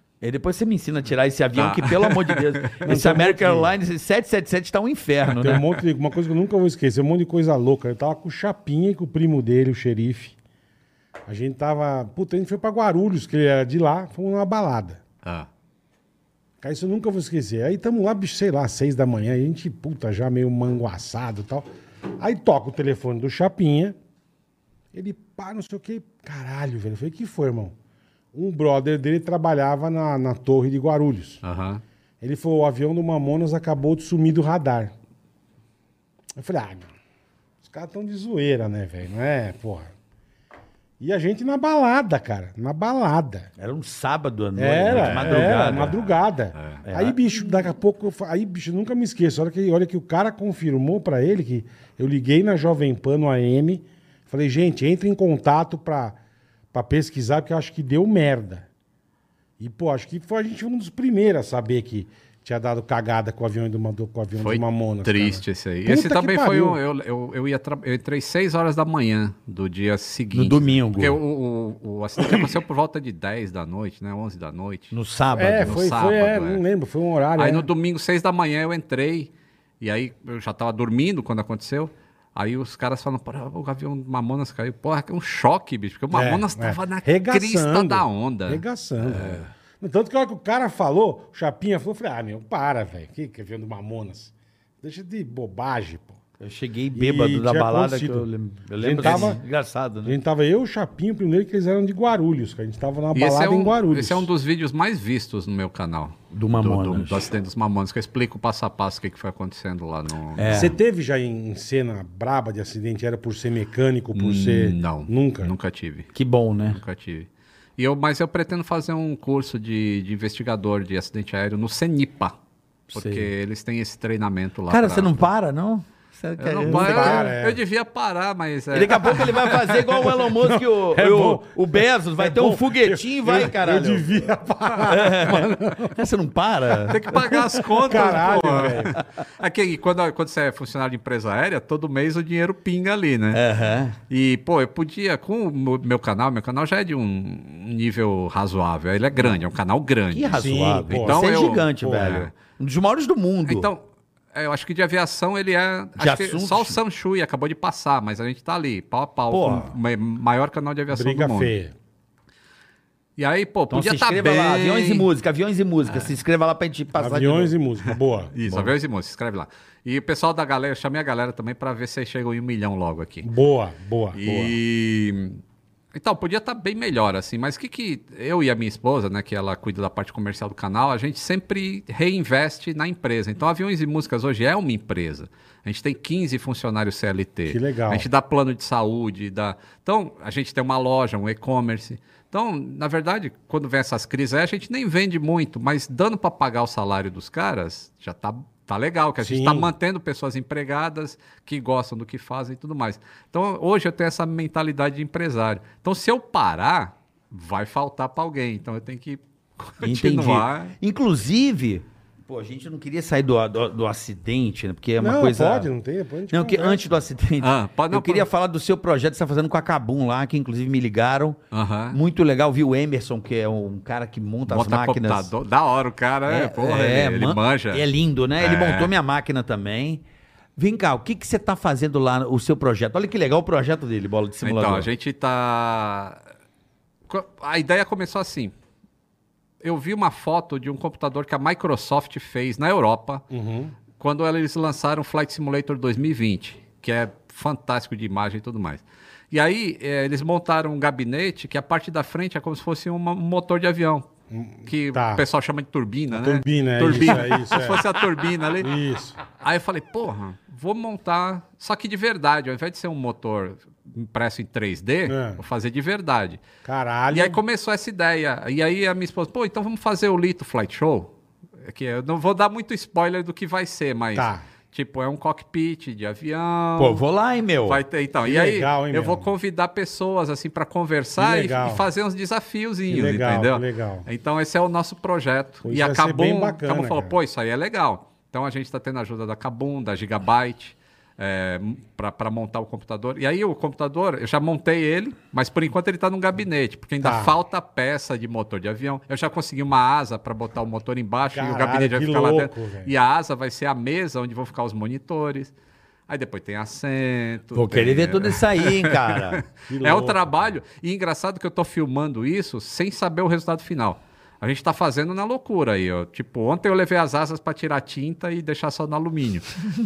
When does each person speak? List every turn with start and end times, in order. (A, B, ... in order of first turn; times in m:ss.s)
0:00.2-0:05.6 A
0:01.6-0:02.8 B
0:02.8-0:03.7 C
0:05.4-0:10.4 C
0:11.3-0:15.0 C
0:16.6-0:21.6 C
0:22.2-0:24.0 C
0:24.9-0:27.7 C
0:28.3-0:31.4 C
0:31.4-0:31.8 B
0:32.2-0:34.9 C
0:36.4-0:36.9 C
0:37.6-0:39.9 C
0:41.0-0:43.5 C
0:43.6-0:46.0 A
0:44.6-0:56.2 C
0:44.9-0:46.8 B
0:46.8-0:47.2 A
0:56.7-0:58.7 C
0:59.6-1:06.8 C
1:04.4-1:14.9 B
1:10.3-1:11.2 A
1:14.9-1:15.8 A
1:15.4-1:17.7 C
1:15.6-1:16.6 B
1:17.4-1:29.5 B
1:26.1-1:36.2 C
1:36.4-1:40.2 A
1:37.0-1:38.3 C
1:38.8-1:39.4 C
1:39.0-1:39.4 B
1:40.0-1:44.3 C
1:43.2-1:50.7 B
1:46.3-1:47.3 A
1:50.4-1:50.8 A
1:50.5-1:55.5 C
1:54.2-1:56.1 B
1:56.1-1:56.8 A
1:56.7-2:02.4 B
2:02.9-2:03.3 A
2:02.9-2:05.3 B
2:04.7-2:07.3 A
2:06.4-2:09.8 B
2:06.6-2:07.6 C
2:08.7-2:14.2 A
2:09.9-2:16.0 C
2:14.8-2:17.4 A
2:16.9-2:23.4 B
2:17.1-2:19.0 C
2:23.3-2:24.0 A
2:24.1-2:30.4 B
2:30.1-2:33.7 A
2:30.3-2:32.2 C
2:31.0-2:32.3 B
2:33.5-2:41.5 B
2:36.0-2:36.8 A
2:39.3-2:39.8 A
2:40.9-2:41.7 C
2:43.2-2:45.1 B
2:43.7-2:47.6 A
2:45.9-2:46.1 B
2:47.0-2:48.7 C
2:48.3-2:53.3 B
2:53.2-2:54.2 C
2:54.1-2:55.4 B
2:54.2-2:54.6 A
2:55.9-3:30.8 B
3:07.5-3:08.1 C
3:19.2-3:19.7 C
3:29.8-3:35.7 A
3:35.0-3:36.8 C
3:36.3-3:41.4 A
3:37.4-3:38.3 B
3:41.5-3:42.0 B
3:41.9-3:45.3 A
3:44.5-3:47.9 B
3:46.3-3:50.0 A
3:48.4-3:48.9 B
3:50.6-3:54.9 A
3:54.4-3:56.2 B
3:57.1-3:58.5 B
3:59.6-4:03.2 B
4:03.3-4:03.7 C
4:04.0-4:14.1 B
4:14.3-4:15.2 C
4:14.6-4:18.7 B
4:16.1-4:17.8 C
4:18.6-4:19.2 C
4:19.4-4:26.4 B
4:25.1-4:25.4 C
4:26.6-4:27.4 C
4:27.1-4:37.0 B
4:34.2-4:34.4 C
4:36.8-4:37.8 A
4:37.7-5:05.5 B
4:38.2-4:39.3 C
4:41.2-4:41.9 C
4:42.9-4:44.1 C
4:45.6-4:47.2 C
4:57.0-4:57.4 C
5:01.3-5:02.9 C
5:06.1-5:19.6 B
5:07.5-5:09.4 A
5:09.7-5:10.5 C